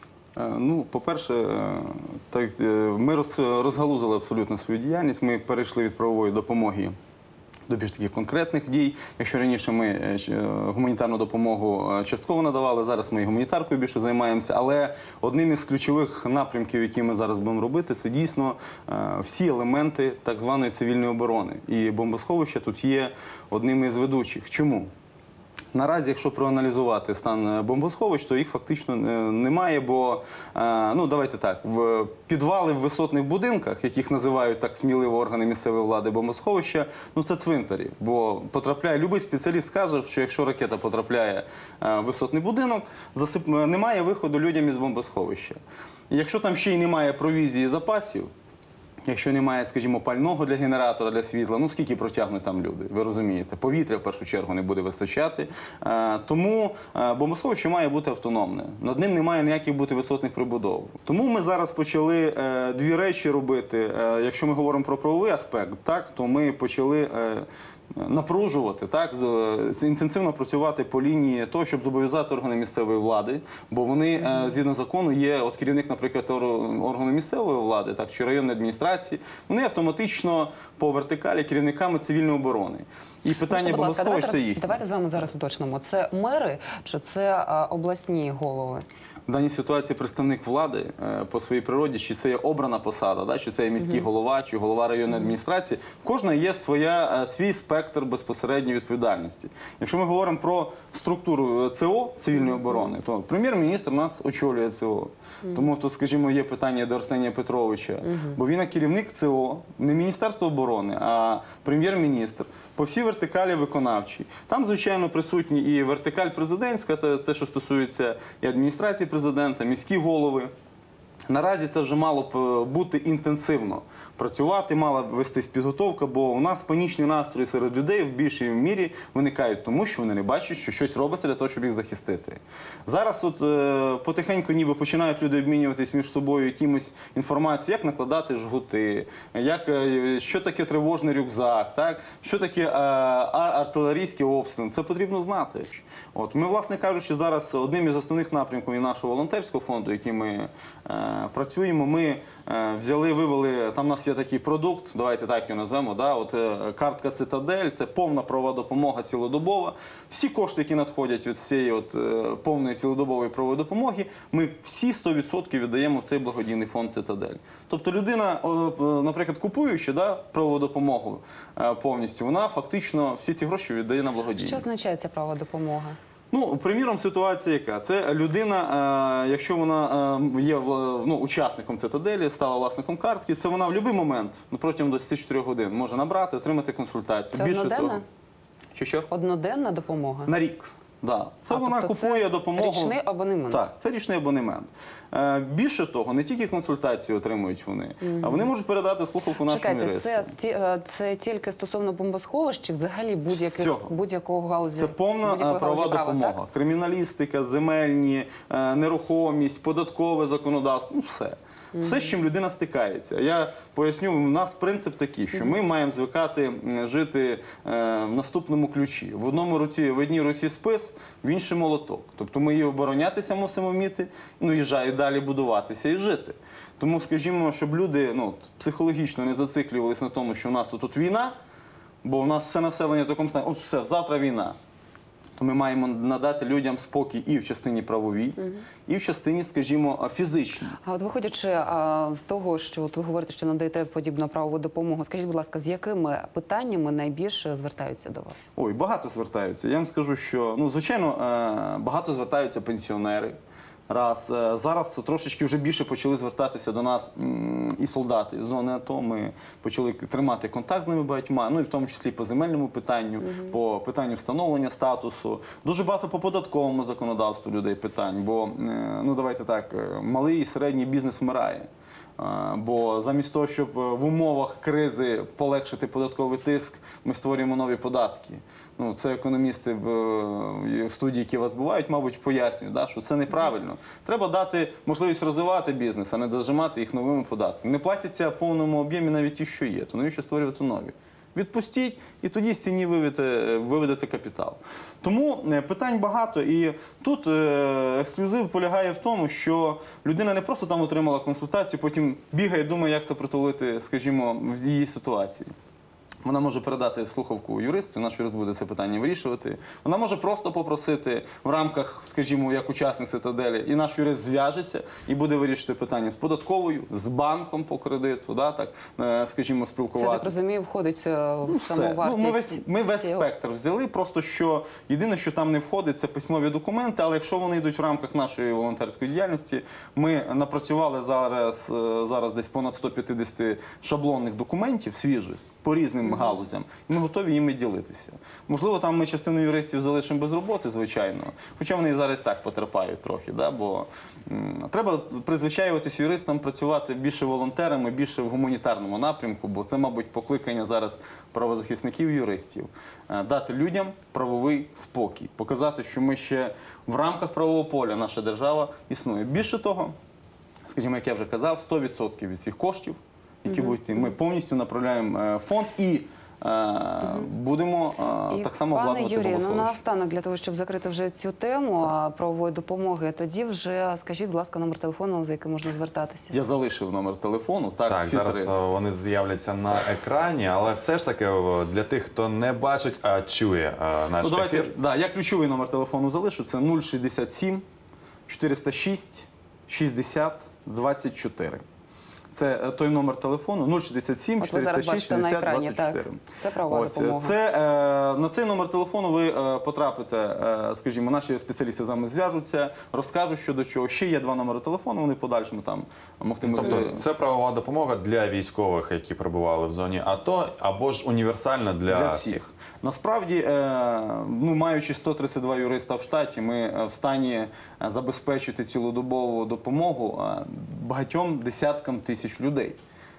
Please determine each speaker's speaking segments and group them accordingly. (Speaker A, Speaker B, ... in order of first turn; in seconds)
Speaker A: 0.3-6.9, 7.7-24.9, 25.7-48.3, 49.1-84.8, 89.3-120.5, 121.3-174.7, 176.3-188.0, 188.7-189.1, 190.2-193.0, 193.5-200.3, 203.3-203.9, 204.7-231.3, 232.0-234.6, 235.4-240.8, 248.6-253.4, 253.9-305.5, 306.2-320.4, 321.4-359.9, 360.7-369.8, 376.3-378.5, 384.2-387.6, 388.3-391.6, 392.3-407.0, 411.9-422.8
Speaker B: 83.4-88.8, 102.3-102.9, 108.0-108.3, 174.3-176.0, 187.3-188.0, 189.1-190.3, 191.5-193.6, 198.0-198.5, 199.4-206.4, 211.8-212.1, 240.8-248.5, 263.2-263.5, 319.9-323.2, 336.1-336.4, 363.5-364.1, 368.3-376.4, 394.4-397.4
Speaker C: 377.9-384.7, 406.4-412.4